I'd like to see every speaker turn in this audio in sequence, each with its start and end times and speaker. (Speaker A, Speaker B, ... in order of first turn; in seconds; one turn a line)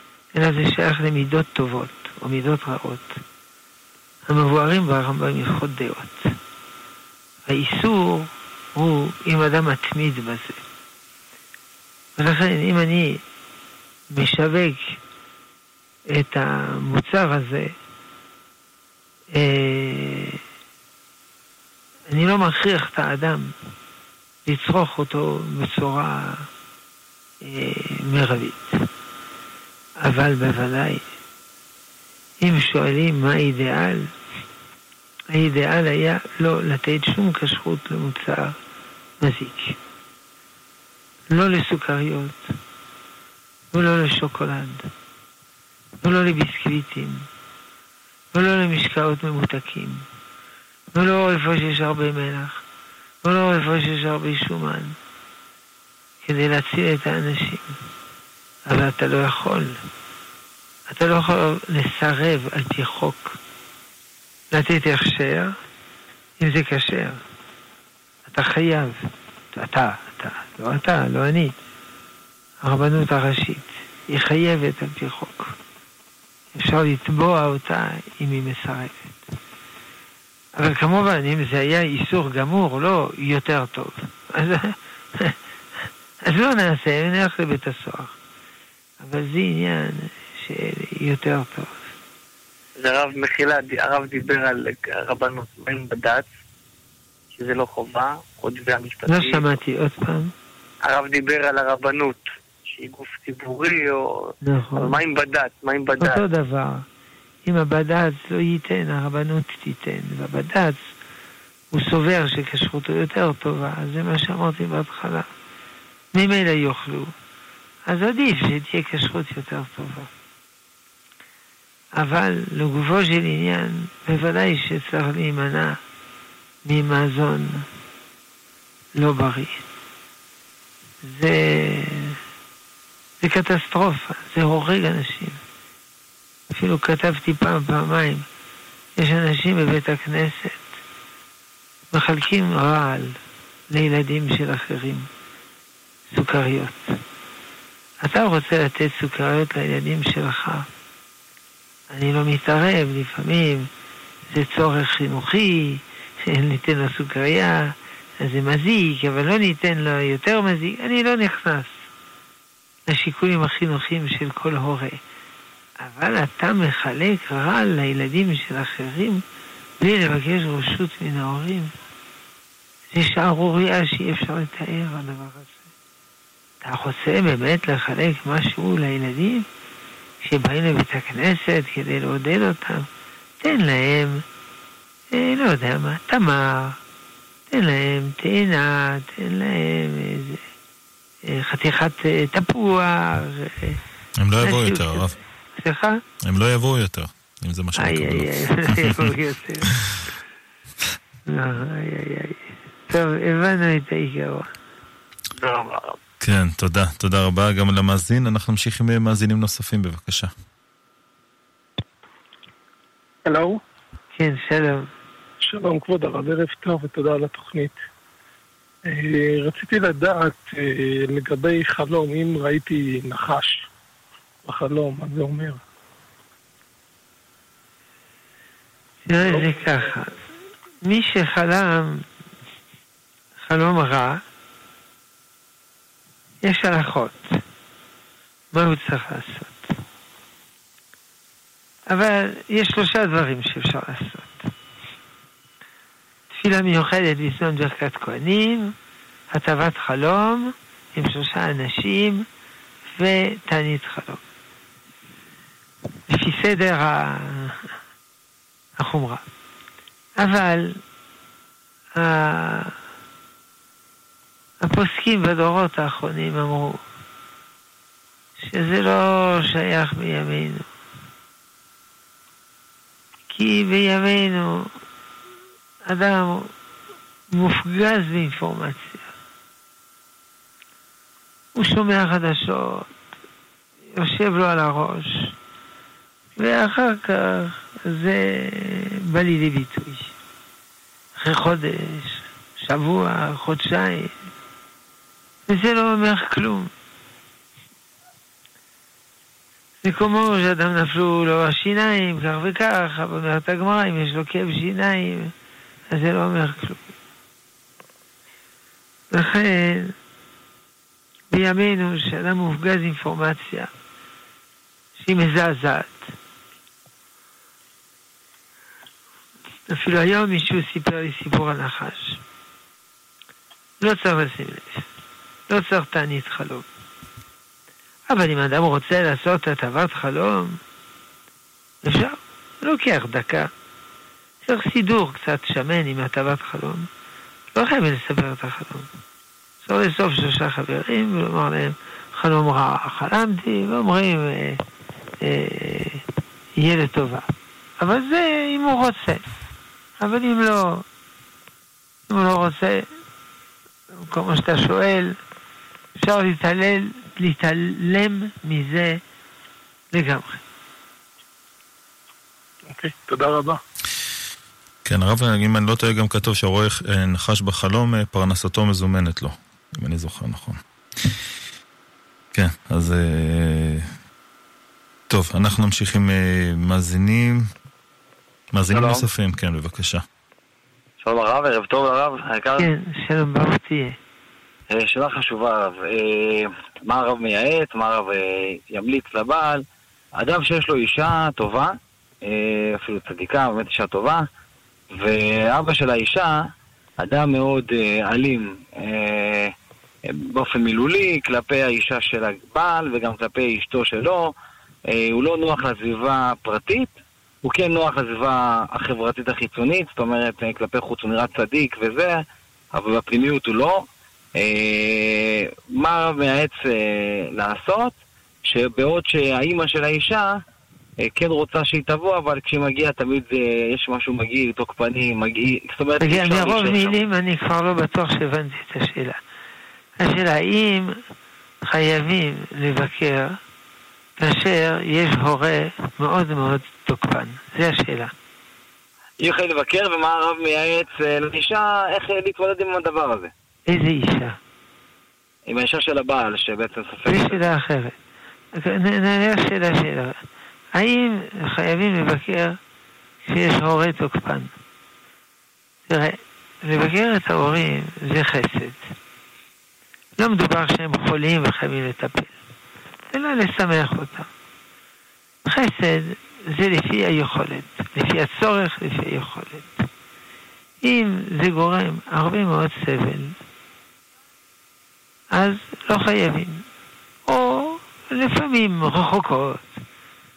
Speaker A: 0.3-3.2
Speaker A: 4.3-6.3
Speaker A: 7.5-10.6
Speaker A: 12.2-13.2
Speaker A: 14.1-14.9
Speaker A: 16.1-17.8
Speaker A: 19.3-20.4
Speaker A: 22.1-23.5
Speaker A: 24.5-26.5
Speaker A: 27.4-28.7
Speaker A: 30.0-31.0
Speaker A: 32.4-34.1
Speaker A: 35.3-38.6
Speaker A: 39.2-39.8
Speaker A: 41.3-42.4
Speaker A: 43.7-44.9
Speaker A: 46.0-47.3
Speaker A: 48.3-50.0
Speaker A: 50.9-52.6
Speaker A: 53.2-55.0
Speaker A: 56.2-57.7
Speaker A: 58.7-59.8
Speaker A: 60.9-63.4
Speaker A: 64.5-65.5
Speaker A: 66.4-67.2
Speaker A: 68.3-69.0
Speaker A: 69.5-71.5
Speaker A: 72.6-75.5
Speaker A: 76.5-79.2
Speaker A: 80.6-85.4
Speaker A: 86.2-88.1
Speaker A: 89.0-91.8
Speaker B: 92.8-96.3
Speaker B: 97.3-99.5
Speaker A: 99.1-100.3
Speaker B: 100.9-104.0
Speaker A: 104.4-105.0
Speaker B: 104.8-106.2
Speaker A: 106.0-106.8
Speaker A: 107.5-110.8
Speaker A: 111.7-115.3
Speaker A: 116.1-117.1
Speaker A: 117.9-120.1
Speaker A: 122.0-125.8
Speaker A: 126.7-127.7
Speaker A: 129.0-129.6
Speaker A: 131.0-132.2
Speaker A: 133.2-135.4
Speaker A: 136.5-138.3
Speaker A: 139.0-140.7
Speaker A: 141.9-143.2
Speaker A: 143.7-145.1
Speaker A: 146.1-146.8
Speaker A: 148.0-150.7
Speaker A: 151.9-153.7
Speaker A: 154.3-161.7
Speaker A: 162.9-165.0
Speaker A: 165.8-169.2
Speaker A: 169.8-171.7
Speaker A: 172.9-175.6
Speaker A: 176.6-179.5
Speaker A: 180.2-182.9
Speaker A: 183.4-184.2
Speaker A: 185.1-186.8
Speaker A: 187.5-190.4
Speaker A: 191.2-193.8
Speaker C: 194.2-195.2
Speaker A: 194.4-196.0
Speaker C: 196.2-199.1
Speaker A: 197.8-199.7
Speaker A: 201.3-204.5
Speaker B: 205.3-206.0
Speaker C: 206.2-210.3
Speaker D: 213.3-213.6
Speaker A: 214.1-214.9
Speaker D: 215.5-217.8
Speaker D: 218.9-223.7
Speaker D: 224.5-225.6
Speaker A: 229.1-230.1
Speaker A: 230.8-232.0
Speaker A: 233.4-234.2
Speaker A: 236.4-237.2
Speaker A: 238.5-239.6
Speaker A: 241.9-244.5
Speaker A: 246.3-248.7
Speaker A: 249.3-252.2
Speaker A: 252.9-254.2
Speaker A: 256.1-257.6
Speaker A: 258.8-259.2
Speaker A: 260.2-260.8
Speaker A: 262.0-262.8
Speaker A: 264.6-266.8
Speaker A: 268.4-270.7
Speaker A: 273.3-274.7
Speaker A: 275.9-276.5
Speaker A: 277.3-279.0
Speaker A: 281.6-282.9
Speaker A: 283.9-285.3
Speaker A: 286.4-290.1
Speaker A: 291.2-294.1
Speaker A: 295.5-296.7
Speaker A: 299.8-305.3
Speaker A: 305.9-306.8
Speaker A: 309.1-309.9
Speaker A: 311.3-313.7
Speaker A: 315.0-316.0
Speaker A: 319.7-322.2
Speaker A: 323.8-324.9
Speaker A: 325.5-326.6
Speaker A: 328.1-330.6
Speaker A: 331.8-333.5
Speaker A: 334.4-336.9
Speaker A: 337.6-338.9
Speaker A: 339.6-344.6
Speaker A: 345.2-346.1
Speaker A: 346.6-347.3
Speaker A: 347.8-349.2
Speaker A: 350.0-350.8
Speaker A: 352.1-352.9
Speaker A: 354.0-355.1
Speaker A: 356.0-359.0
Speaker A: 359.9-360.4
Speaker D: 362.7-363.6
Speaker C: 364.9-370.6
Speaker C: 372.3-373.9
Speaker C: 375.1-377.5
Speaker C: 378.5-380.0
Speaker E: 378.7-379.1
Speaker E: 381.0-382.7
Speaker A: 382.6-384.0
Speaker E: 384.7-389.6
Speaker E: 390.2-391.7
Speaker E: 392.2-394.2
Speaker E: 394.9-396.4
Speaker E: 397.0-399.5
Speaker E: 400.1-404.3
Speaker E: 404.9-406.9
Speaker E: 407.4-412.2
Speaker E: 412.7-413.8
Speaker E: 414.4-420.3
Speaker E: 421.0-427.0
Speaker A: 426.0-429.2
Speaker A: 430.0-431.0
Speaker A: 431.7-433.4
Speaker A: 434.2-438.1
Speaker E: 439.2-443.3
Speaker A: 443.7-444.4
Speaker E: 445.5-447.4
Speaker A: 447.1-448.0
Speaker A: 448.6-450.2
Speaker A: 450.8-452.6
Speaker A: 453.2-454.5
Speaker A: 455.9-458.8
Speaker A: 460.2-462.4
Speaker A: 463.1-464.3
Speaker A: 465.4-469.9
Speaker A: 470.8-473.4
Speaker A: 475.3-476.6
Speaker A: 477.3-479.8